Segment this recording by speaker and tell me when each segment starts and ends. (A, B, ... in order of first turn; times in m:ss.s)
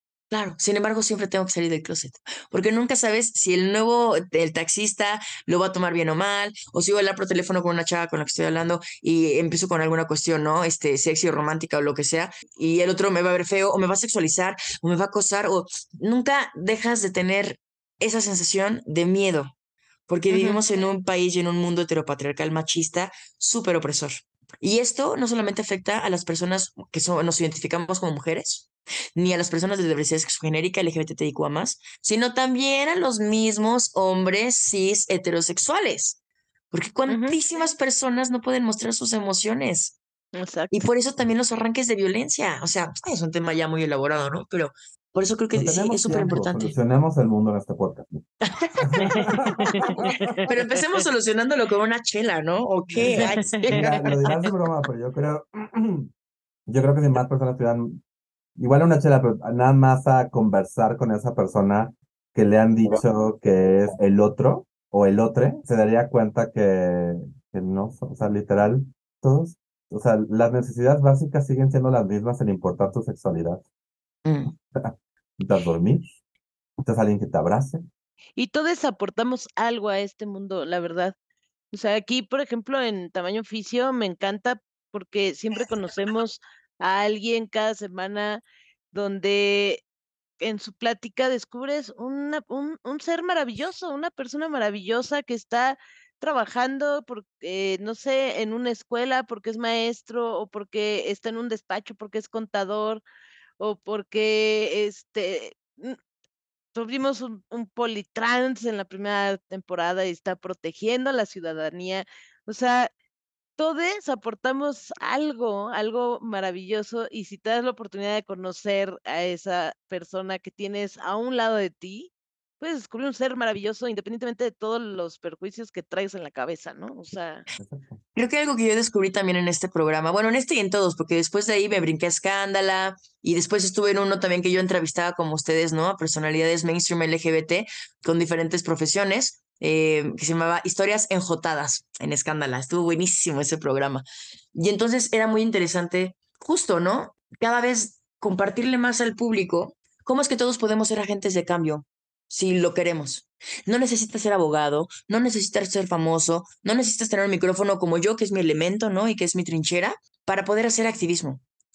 0:00.3-0:19.5 A
0:20.1-0:36.2 A
0:20.3-0:20.6 B
0:36.7-0:40.0 A
0:37.1-0:37.4 B
0:40.3-0:40.8 B
0:40.7-0:46.8 A
0:45.5-0:48.2 C
0:48.8-0:50.2 C
0:49.0-0:51.0 B
0:50.4-0:54.0 A
0:52.9-0:56.1 C
0:53.0-0:54.3 B
0:56.7-0:58.0 C
0:58.6-1:13.6 C
1:14.2-1:14.5 A
1:14.8-1:16.2 C
1:16.8-1:17.8 C
1:18.4-1:21.1 B
1:21.7-1:29.8 B
1:30.4-1:43.0 B
1:43.6-1:46.0 B
1:46.7-1:52.9 B
1:53.6-2:07.4 B
2:07.6-2:08.0 C
2:08.1-2:41.4 A